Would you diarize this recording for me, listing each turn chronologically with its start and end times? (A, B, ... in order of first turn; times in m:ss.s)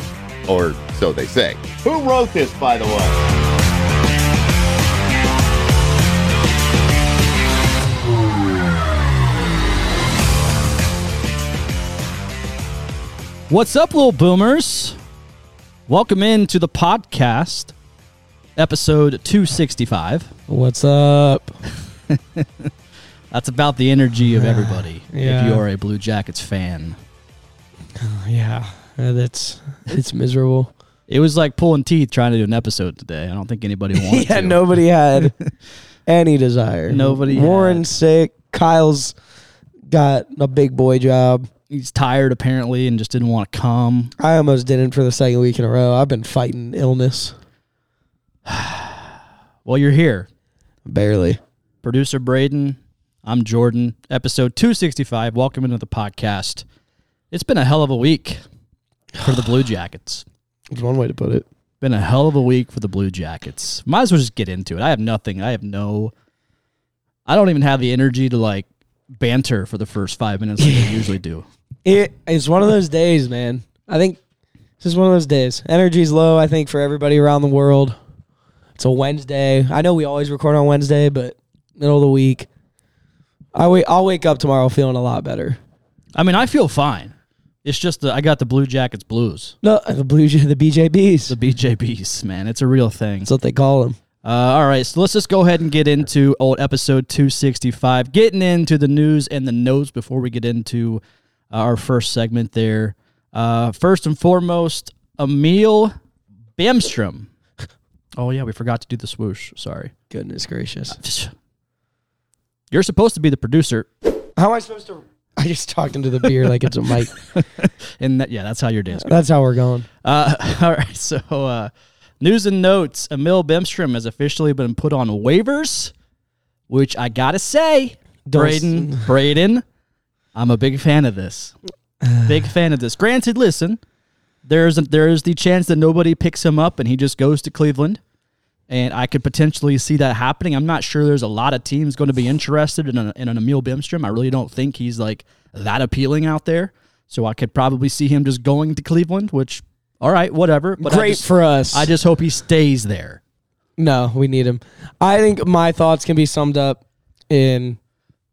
0:00.5-0:03.2 A
0:13.5-0:15.0 B
0:15.9-0:17.7 B
0:18.6-0:20.3 B
0:20.5-0:21.6 C
0:22.1-0:22.7 B
0:23.3-0:27.0 B
0:24.3-0:25.6 C
0:28.0-0:30.7 C
0:31.1-0:35.5 B
0:33.9-0:35.3 C
0:36.0-0:39.1 C
0:36.9-0:37.8 B
0:39.9-0:41.5 C
0:41.7-0:44.1 B
0:44.2-0:47.3 C
0:48.4-0:49.1 B
0:49.6-0:50.3 B
0:50.8-0:51.4 C
0:51.8-0:56.6 B
0:57.3-0:58.4 B
0:59.2-0:59.4 C
0:59.2-1:00.2 B
1:00.7-1:01.4 C
1:01.8-1:06.1 B
1:07.2-1:11.4 B
1:10.6-1:11.1 C
1:11.8-1:14.2 C
1:14.8-1:18.0 C
1:18.8-1:22.5 C
1:23.5-1:25.6 C
1:26.2-1:29.6 B
1:29.6-1:31.3 C
1:31.3-1:33.3 B
1:33.2-1:34.0 C
1:34.2-1:45.9 B
1:46.6-1:47.3 B
1:48.2-1:49.9 B
1:50.1-1:51.0 C
1:50.9-1:51.3 B
1:52.7-1:53.9 B
1:54.4-1:57.1 C
1:57.2-1:59.2 B
1:59.0-1:59.8 C
2:00.0-2:05.9 B
2:06.7-2:09.6 B
2:08.2-2:09.0 C
2:10.3-2:11.6 B
2:12.0-2:12.3 C
2:12.2-2:13.8 B
2:14.4-2:18.0 B
2:18.7-2:33.2 B
2:30.8-2:31.9 C
2:33.8-2:37.8 C